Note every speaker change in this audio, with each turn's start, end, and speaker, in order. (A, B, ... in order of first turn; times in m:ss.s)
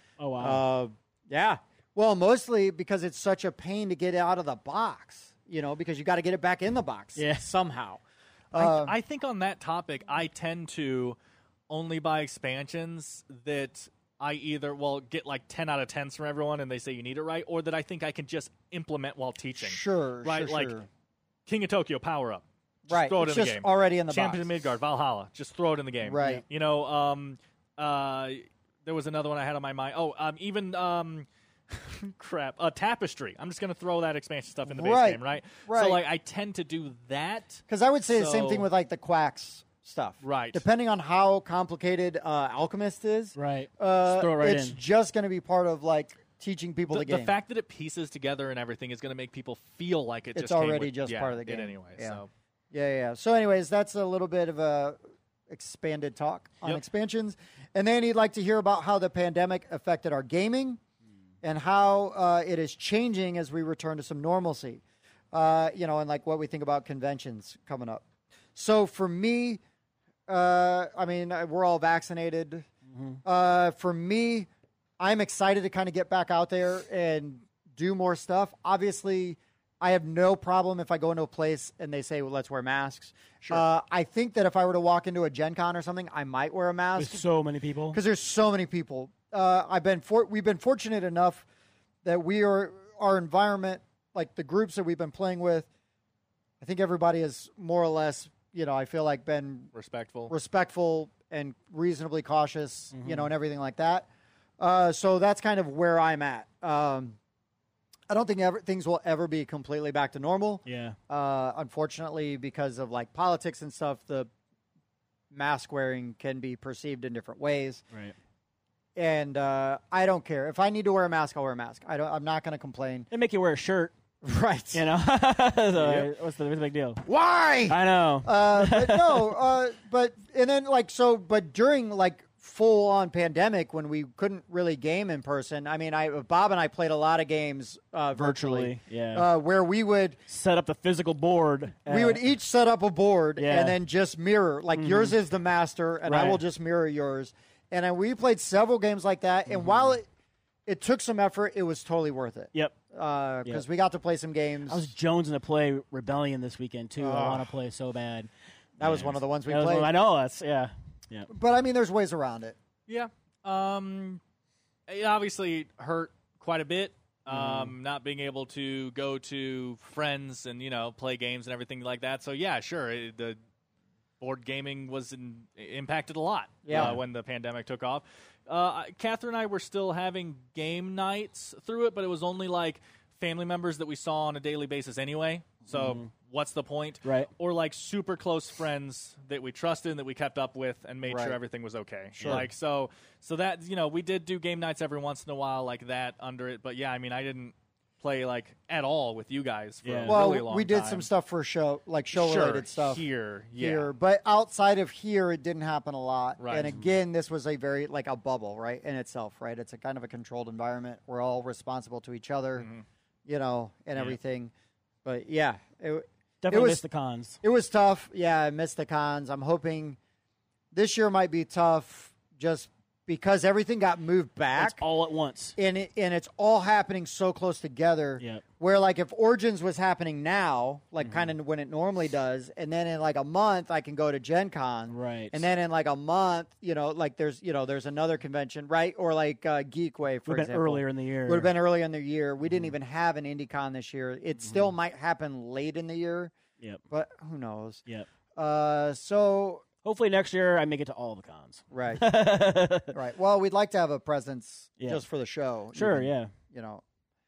0:00.2-0:00.6 A
0:00.4-0:08.0 B
0:07.2-0:07.5 A
0:08.5-0:09.0 B
0:08.5-0:11.2 C
0:11.7-0:20.8 C
0:19.6-0:20.9 B
0:21.5-0:38.7 C
0:22.9-0:24.5 B
0:26.0-0:26.4 B
0:34.7-0:36.0 B
0:37.7-0:47.3 B
0:40.2-0:40.6 C
0:43.4-0:44.8 A
0:46.9-0:52.3 C
0:50.3-0:52.2 B
0:52.7-1:00.8 B
1:01.4-1:09.6 B
1:10.3-1:12.7 B
1:12.9-1:13.2 A
1:13.2-1:14.5 B
1:15.0-1:27.2 B
1:26.9-1:28.0 A
1:27.9-1:31.4 B
1:32.0-1:35.7 B
1:36.6-1:39.7 B
1:39.7-1:40.3 C
1:40.3-1:44.1 B
1:42.9-1:43.3 A
1:44.6-1:47.2 B
1:48.1-1:54.3 B
1:50.6-1:51.0 A
1:55.3-1:57.8 B
1:59.0-2:03.1 B
2:03.1-2:03.9 A
2:04.2-2:04.8 B
2:04.7-2:07.0 A
2:05.7-2:06.1 B
2:07.0-2:20.2 B
2:07.7-2:09.4 A
2:18.2-2:19.3 A
2:20.3-2:22.2 A
2:21.9-2:30.0 B
2:23.4-2:23.8 A
2:24.7-2:25.1 A
2:26.0-2:26.4 A
2:29.5-2:29.9 A
2:30.6-2:34.9 B
2:34.7-2:38.3 A
2:37.0-2:37.5 B
2:38.8-2:39.9 B
2:38.8-2:41.3 A
2:41.3-2:42.6 B
2:42.9-2:44.2 C
2:44.9-2:53.4 C
2:47.3-2:47.7 A
2:54.2-3:21.1 C
2:56.6-2:57.0 B
2:56.7-2:57.0 A
3:05.7-3:06.1 A
3:07.0-3:07.3 A
3:11.1-3:11.4 B
3:12.2-3:12.5 A
3:19.8-3:20.2 A
3:20.1-3:23.0 B
3:22.1-3:23.9 C
3:23.6-3:32.7 B
3:26.4-3:26.7 C
3:32.6-3:32.8 C
3:33.2-3:34.5 B
3:35.0-3:36.8 B
3:36.4-3:37.4 A
3:37.4-3:40.0 B
3:40.7-3:44.8 B
3:44.6-3:45.6 A
3:45.6-4:06.3 B
3:51.0-3:51.3 A
3:54.9-3:55.4 A
4:00.2-4:01.5 A
4:02.5-4:02.7 A
4:06.9-4:07.8 B
4:08.3-4:09.6 B
4:09.8-4:12.9 A
4:11.7-4:12.1 B
4:12.9-4:16.8 B
4:15.7-4:16.3 A